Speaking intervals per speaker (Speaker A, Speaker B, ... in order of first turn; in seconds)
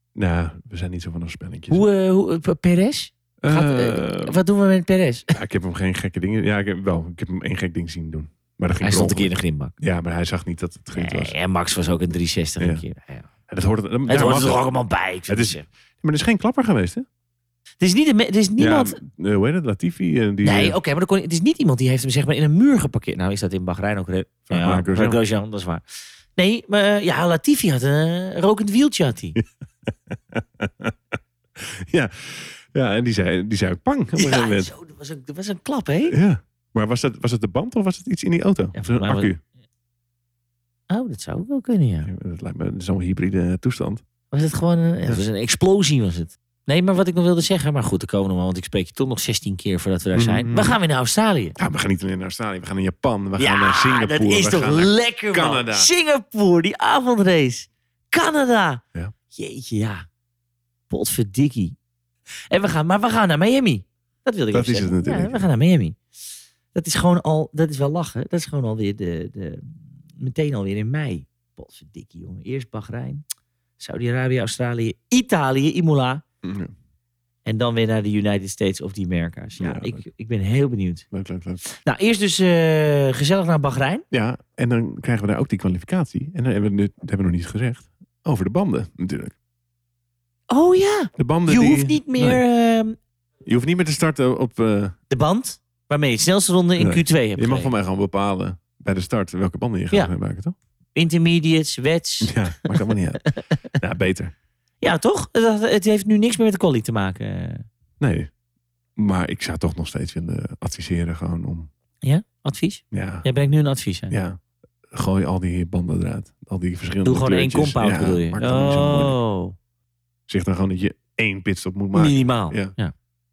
Speaker A: 0.1-1.8, 3.4-4.4, 5.3-11.3, 12.6-12.8, 13.5-14.7, 15.3-17.1, 18.6-20.8, 24.5-25.2, 29.4-30.9, 31.6-34.7, 36.1-39.4, 42.0-44.0, 50.1-50.8, 51.6-55.9, 64.5-65.4, 76.4-76.7, 79.6-80.0, 81.1-81.6, 84.1-89.3, 91.2-92.4, 93.4-95.0, 96.8-100.5, 102.2-104.3, 108.0-108.3, 109.0-111.7, 112.9-113.3, 114.1-114.4, 114.9-119.2, 120.3-122.7
Speaker B: 1.7-5.3, 8.8-9.7, 10.9-13.3, 14.1-15.7, 17.8-19.0, 20.4-25.8, 26.4-29.4, 34.1-36.2, 38.7-39.3, 40.9-42.1, 44.3-51.5, 53.4-60.0, 60.9-61.8, 62.5-66.0, 66.7-73.2, 73.8-76.2, 77.4-81.0, 81.6-84.0, 90.5-93.0, 95.1-97.7, 100.9-103.6, 104.8-107.7, 112.0-114.2, 117.0-119.5, 121.9-122.9